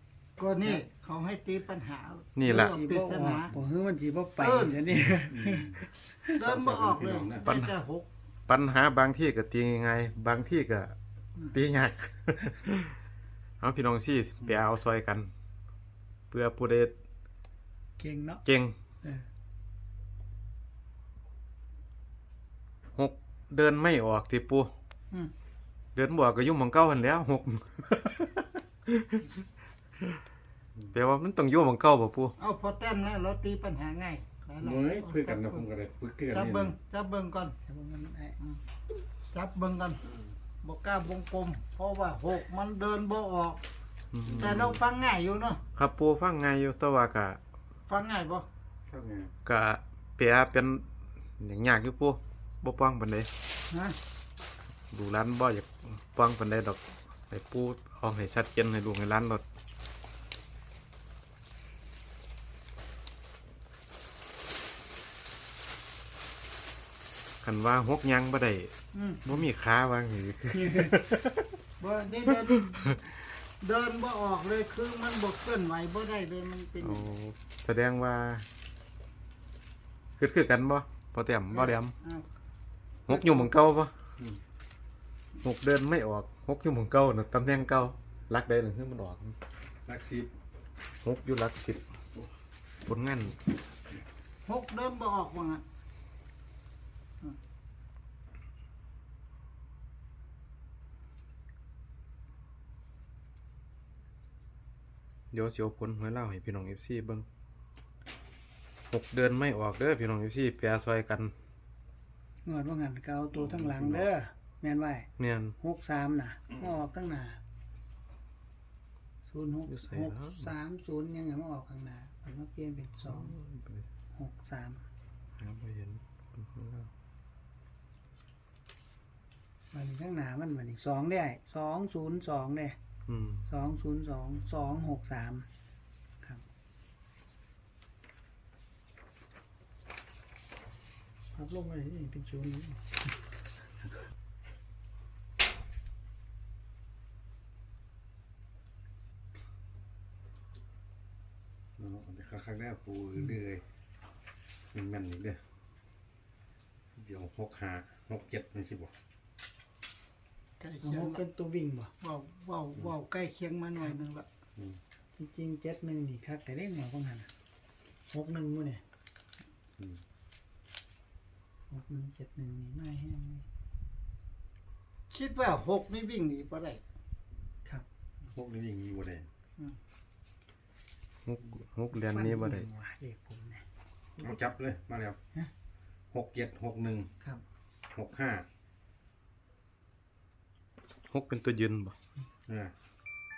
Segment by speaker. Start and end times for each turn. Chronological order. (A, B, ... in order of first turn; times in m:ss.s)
0:00.4-0:03.5 A
0:02.4-0:02.8 B
0:02.5-0:06.3 C
0:04.4-0:04.8 A
0:05.1-0:05.8 D
0:06.4-0:08.1 A
0:06.4-0:07.4 D
0:07.4-0:07.7 B
0:08.5-0:10.9 B
0:11.5-0:13.0 B
0:13.6-0:15.3 B
0:16.3-0:16.9 B
0:18.0-0:18.4 C
0:18.4-0:18.7 B
0:23.0-0:24.7 B
0:25.9-0:29.2 B
0:30.9-0:32.4 B
0:32.4-0:35.6 A
0:34.6-0:36.7 D
0:36.3-0:37.6 A
0:37.6-0:38.4 C
0:39.3-0:40.0 A
0:40.6-0:43.6 A
0:44.1-0:44.7 B
0:44.3-0:44.7 D
0:44.4-0:45.6 A
0:45.7-0:47.4 B
0:47.9-0:48.5 A
0:48.9-0:49.3 D
0:49.4-0:50.8 B
0:51.4-0:53.3 B
0:53.7-0:54.0 A
0:54.9-0:59.4 B
1:07.4-1:08.7 B
1:08.9-1:09.2 A
1:09.2-1:11.3 B
1:10.6-1:10.9 C
1:11.8-1:13.0 A
1:13.6-1:17.1 A
1:16.8-1:18.4 B
1:20.2-1:21.9 B
1:21.5-1:22.2 A
1:23.1-1:23.5 A
1:23.1-1:23.9 B
1:25.4-1:29.4 B
1:29.8-1:30.3 D
1:31.0-1:31.8 B
1:32.8-1:33.4 B
1:34.4-1:35.6 A
1:45.3-1:47.2 B
1:48.9-1:51.3 B
1:52.4-1:55.1 C
1:55.2-1:55.6 B
1:55.6-1:57.4 C
1:59.2-2:03.3 C
1:59.7-2:00.5 B
2:03.0-2:03.8 B
2:04.1-2:04.8 C
2:05.4-2:06.9 B
2:09.7-2:12.8 C
2:13.1-2:13.4 B
2:13.5-2:15.4 C
2:21.3-2:23.1 C
2:31.8-2:33.6 D
2:34.7-2:35.4 D
2:37.0-2:38.9 D
2:40.6-2:41.2 A
2:40.8-2:41.9 C
2:42.0-2:44.3 A
2:45.2-2:47.3 C
2:48.1-2:48.8 C
2:51.7-2:53.4 C
2:55.1-2:56.8 A
2:58.3-2:59.3 D
3:01.2-3:02.7 B
3:01.9-3:03.6 C
3:04.2-3:05.2 D
3:06.1-3:07.1 D
3:07.9-3:08.4 D
3:11.1-3:11.9 B
3:12.5-3:12.7 D